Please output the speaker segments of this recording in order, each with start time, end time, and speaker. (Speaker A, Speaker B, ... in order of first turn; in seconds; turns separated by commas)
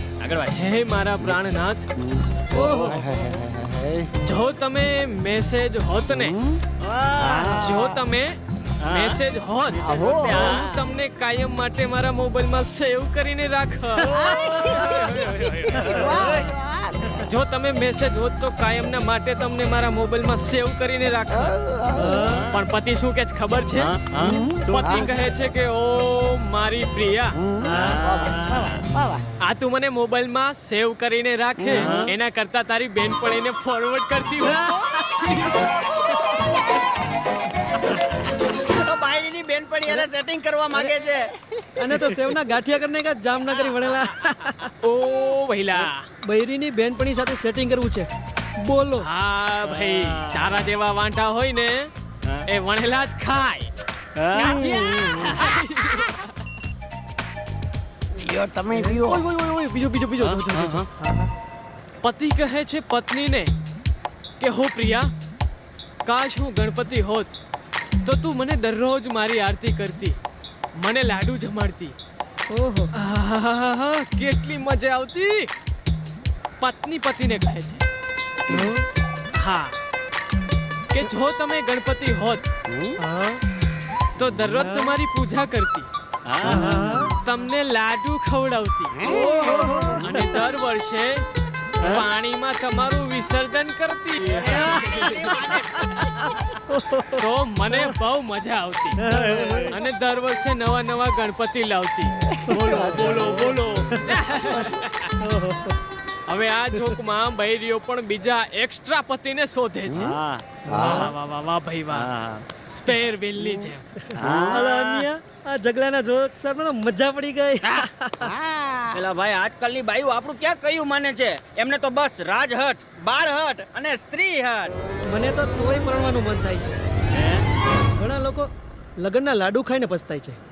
Speaker A: 0.2-0.6, Speaker B: 0.5-1.9, Speaker C: 2.0-4.1, Speaker A: 2.5-3.1, Speaker D: 2.5-3.2, Speaker B: 4.2-6.3, Speaker C: 6.1-6.6, Speaker A: 6.8-7.6, Speaker C: 7.2-8.0, Speaker B: 7.3-15.9, Speaker A: 8.8-9.2, Speaker A: 9.7-10.7, Speaker C: 9.8-10.8, Speaker A: 14.0-16.5, Speaker C: 14.1-15.1, Speaker C: 15.7-17.3, Speaker B: 17.2-21.6, Speaker C: 21.3-22.4, Speaker D: 21.9-22.4, Speaker A: 22.3-22.6, Speaker B: 22.5-23.9, Speaker A: 23.8-25.0, Speaker C: 24.2-25.1, Speaker B: 24.5-27.4, Speaker C: 27.4-29.2, Speaker D: 27.6-28.0, Speaker A: 27.7-28.8, Speaker B: 29.4-35.7, Speaker D: 31.7-32.1, Speaker A: 31.8-32.1, Speaker D: 34.4-35.3, Speaker A: 38.7-41.3, Speaker D: 41.8-44.7, Speaker B: 44.8-46.0, Speaker D: 46.2-48.1, Speaker D: 48.6-49.1, Speaker B: 49.0-51.9, Speaker A: 49.7-50.5, Speaker B: 52.5-53.7, Speaker A: 54.2-54.8, Speaker B: 54.3-56.4, Speaker D: 54.4-55.0, Speaker C: 54.5-55.5, Speaker C: 58.1-59.3, Speaker B: 58.7-60.9, Speaker A: 60.2-60.9, Speaker B: 62.0-63.5, Speaker B: 64.4-65.1, Speaker B: 66.0-67.3, Speaker B: 68.0-70.2, Speaker B: 70.8-72.0, Speaker D: 72.5-72.9, Speaker B: 72.9-75.5, Speaker B: 76.6-77.8, Speaker D: 78.5-78.8, Speaker B: 79.4-79.8, Speaker B: 80.9-82.5, Speaker C: 82.7-83.0, Speaker D: 83.0-83.4, Speaker B: 84.2-85.9, Speaker D: 84.5-85.0, Speaker A: 86.3-86.7, Speaker D: 86.4-87.1, Speaker C: 86.5-86.8, Speaker B: 87.2-89.2, Speaker C: 88.9-89.9, Speaker A: 89.1-89.9, Speaker D: 89.1-90.4, Speaker B: 90.0-91.2, Speaker B: 91.8-95.3, Speaker A: 94.2-96.6, Speaker D: 94.5-96.0, Speaker D: 96.7-97.9, Speaker B: 97.2-99.1, Speaker D: 99.0-99.8, Speaker A: 99.1-99.7, Speaker B: 99.7-105.2, Speaker C: 102.3-103.6, Speaker D: 102.5-103.3, Speaker D: 103.9-104.7, Speaker D: 105.2-105.8, Speaker B: 106.3-110.2, Speaker C: 109.9-111.1, Speaker A: 110.0-111.1, Speaker B: 110.7-112.1, Speaker A: 111.9-112.5, Speaker B: 112.7-113.9, Speaker C: 113.4-114.6, Speaker A: 114.2-115.1, Speaker D: 114.3-118.3, Speaker C: 118.2-119.0, Speaker A: 118.9-124.7, Speaker D: 125.1-126.8, Speaker A: 127.1-127.4, Speaker D: 128.0-128.5, Speaker D: 129.0-130.4